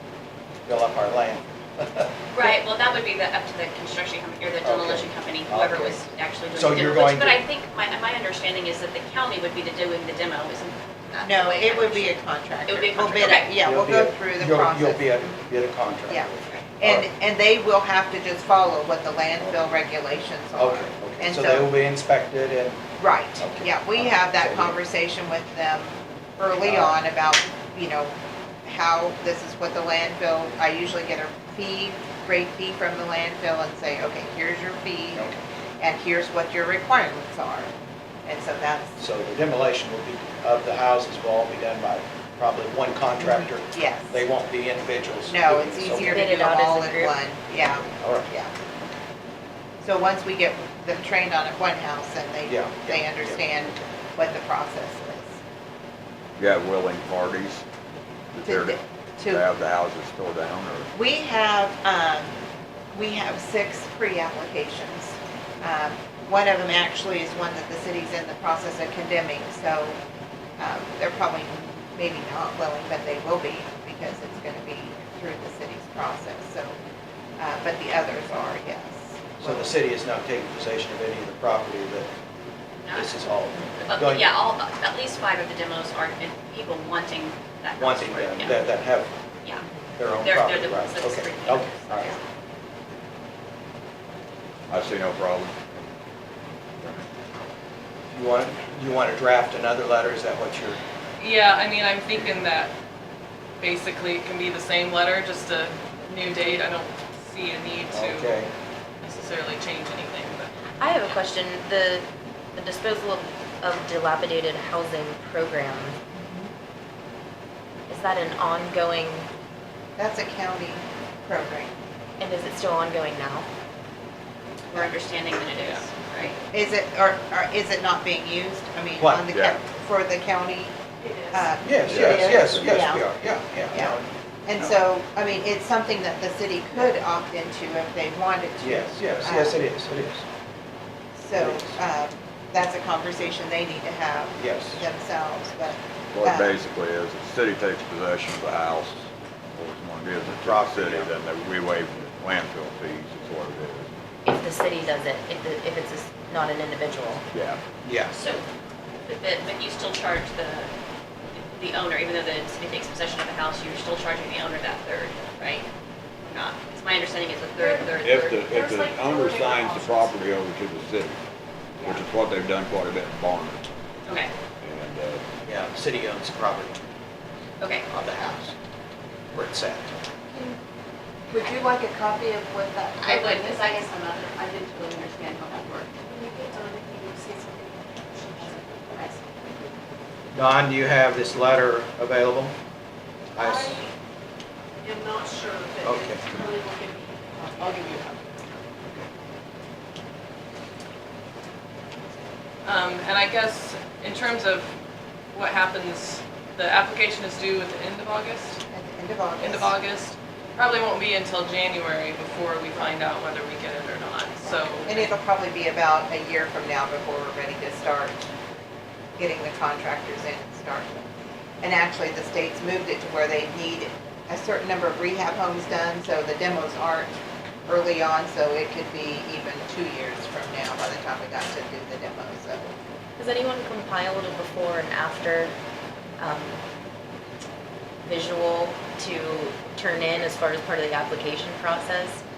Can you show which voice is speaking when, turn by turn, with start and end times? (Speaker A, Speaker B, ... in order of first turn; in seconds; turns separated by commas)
Speaker A: 0.7-2.1, Speaker B: 2.3-13.5, Speaker A: 4.6-6.0, Speaker A: 6.5-7.4, Speaker C: 11.2-15.3, Speaker A: 13.6-17.1, Speaker C: 16.1-21.7, Speaker A: 20.5-22.8, Speaker C: 23.0-28.1, Speaker A: 23.4-24.8, Speaker A: 26.6-27.0, Speaker C: 28.6-35.3, Speaker A: 35.1-35.4, Speaker C: 35.8-37.7, Speaker C: 38.2-39.0, Speaker A: 39.0-46.3, Speaker C: 43.2-44.2, Speaker C: 45.3-48.5, Speaker D: 46.0-47.1, Speaker A: 47.8-48.3, Speaker C: 49.8-55.4, Speaker A: 52.5-53.9, Speaker E: 56.4-57.6, Speaker E: 58.3-60.9, Speaker C: 58.4-59.4, Speaker C: 60.9-62.3, Speaker C: 62.9-70.0, Speaker C: 70.6-76.7, Speaker C: 77.4-79.7, Speaker A: 79.4-82.1, Speaker B: 82.8-83.1, Speaker A: 82.9-84.3, Speaker B: 83.8-88.6, Speaker A: 87.8-89.1, Speaker A: 90.0-92.2, Speaker B: 90.2-92.2, Speaker E: 94.7-95.6, Speaker A: 98.1-100.8, Speaker F: 101.2-102.7, Speaker F: 103.6-108.4, Speaker A: 107.9-108.5, Speaker F: 109.0-110.5, Speaker D: 110.8-112.0, Speaker D: 112.5-116.0, Speaker D: 117.9-119.3, Speaker C: 120.0-121.7, Speaker D: 122.2-123.5, Speaker B: 124.7-126.3, Speaker C: 126.5-130.7, Speaker E: 129.3-129.6, Speaker C: 131.3-133.0, Speaker A: 131.6-134.1, Speaker E: 131.8-132.7, Speaker C: 133.7-139.6, Speaker A: 138.6-140.2, Speaker C: 141.2-146.6, Speaker A: 141.3-141.7, Speaker A: 144.4-144.8, Speaker E: 146.1-153.9, Speaker A: 150.3-151.1, Speaker D: 154.2-157.2, Speaker E: 157.3-157.6, Speaker A: 157.8-158.1, Speaker B: 158.1-158.4, Speaker B: 159.1-160.7, Speaker B: 161.6-165.7, Speaker B: 166.2-168.4, Speaker E: 168.0-171.2, Speaker G: 168.5-170.1, Speaker E: 171.8-173.6, Speaker B: 174.1-174.3, Speaker E: 174.6-175.2, Speaker A: 175.4-176.8, Speaker B: 177.6-177.8, Speaker A: 177.9-178.5, Speaker A: 179.3-180.0, Speaker C: 181.3-183.4, Speaker B: 183.0-185.9, Speaker G: 186.1-189.1, Speaker A: 190.3-192.6, Speaker A: 193.3-193.8, Speaker G: 193.4-193.7, Speaker G: 194.8-197.1, Speaker A: 195.8-196.3, Speaker F: 197.6-198.2, Speaker F: 202.6-204.7, Speaker F: 205.3-208.6, Speaker C: 208.7-209.7, Speaker F: 209.4-215.1, Speaker C: 214.4-218.2, Speaker C: 219.2-221.1, Speaker C: 221.6-227.1, Speaker C: 227.7-232.7, Speaker D: 233.2-235.5, Speaker D: 236.2-236.6, Speaker D: 238.0-242.2